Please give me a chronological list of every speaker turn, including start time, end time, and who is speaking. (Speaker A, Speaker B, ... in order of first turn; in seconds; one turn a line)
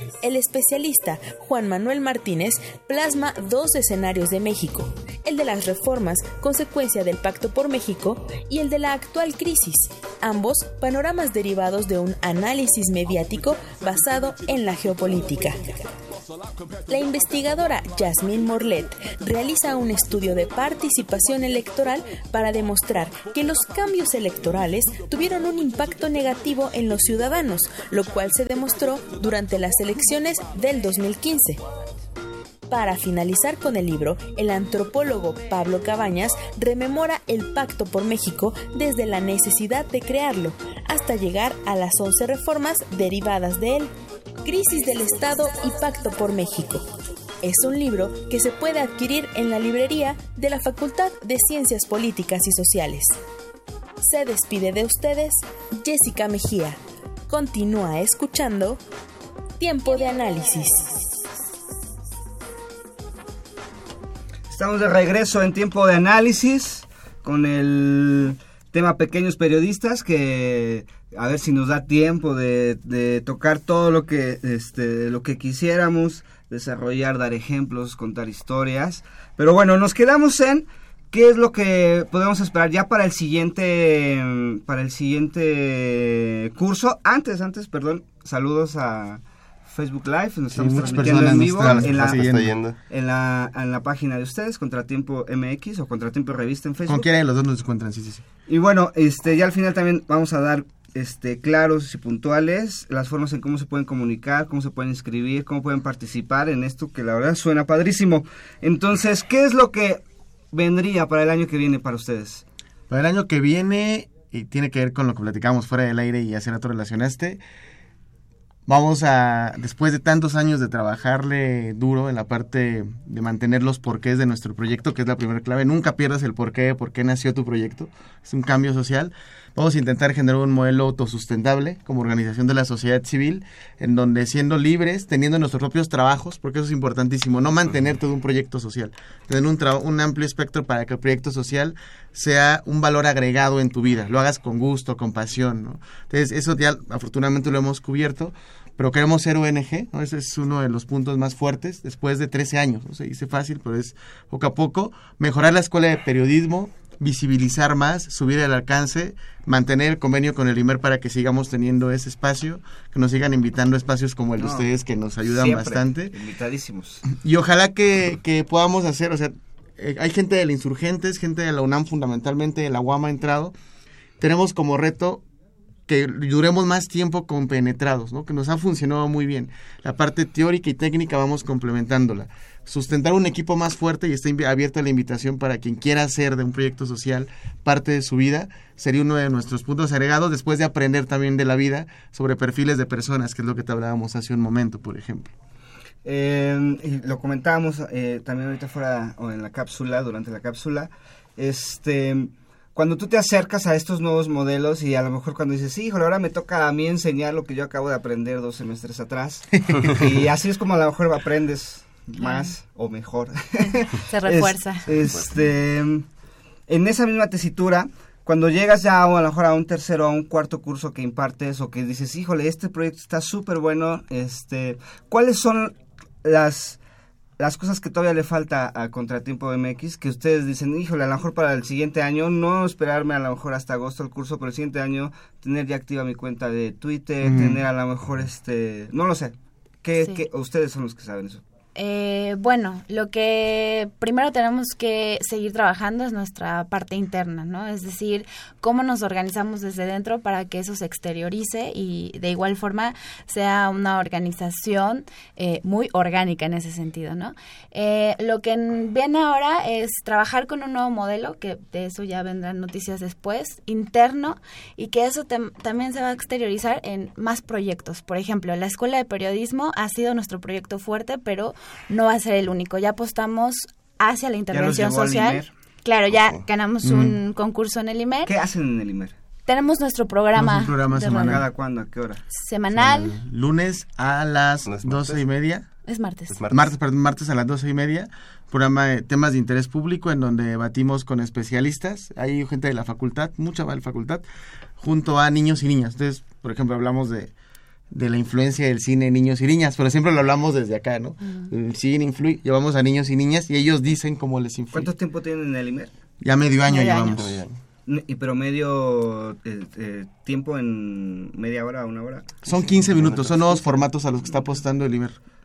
Speaker A: 0.2-15.9
Speaker A: 16.9-31.6
Speaker A: 32.7-43.9
Speaker A: 44.4-46.8
Speaker A: 47.4-53.2
Speaker A: 54.0-56.8
Speaker A: 57.3-58.8
Speaker A: 59.6-61.1
Speaker B: 64.5-92.2
Speaker C: 90.5-92.5
Speaker D: 90.8-92.8
Speaker B: 92.9-97.1
Speaker C: 96.8-98.2
Speaker B: 98.5-112.4
Speaker C: 112.9-117.4
Speaker C: 118.7-166.1
Speaker B: 164.4-164.7
Speaker B: 165.2-167.0
Speaker C: 167.1-173.5
Speaker C: 174.2-175.2
Speaker C: 175.9-195.3
Speaker B: 196.0-216.1
Speaker E: 212.2-212.5
Speaker E: 214.1-214.9
Speaker D: 214.9-215.4
Speaker B: 216.7-226.8
Speaker B: 227.4-241.4
Speaker C: 237.2-237.6
Speaker E: 241.7-278.3
Speaker B: 274.5-275.5
Speaker C: 276.8-277.2
Speaker B: 278.2-279.1
Speaker E: 279.4-281.4
Speaker C: 280.3-281.5
Speaker B: 281.1-282.2
Speaker E: 282.3-283.2
Speaker C: 282.7-285.7
Speaker D: 284.6-285.2
Speaker E: 285.9-286.3
Speaker D: 286.3-286.7
Speaker C: 286.5-294.2
Speaker C: 294.8-297.3
Speaker C: 297.9-304.9
Speaker B: 304.7-305.9
Speaker C: 306.2-307.4
Speaker E: 306.7-307.2
Speaker D: 307.1-307.5
Speaker B: 307.9-312.4
Speaker C: 312.4-315.2
Speaker D: 312.5-313.7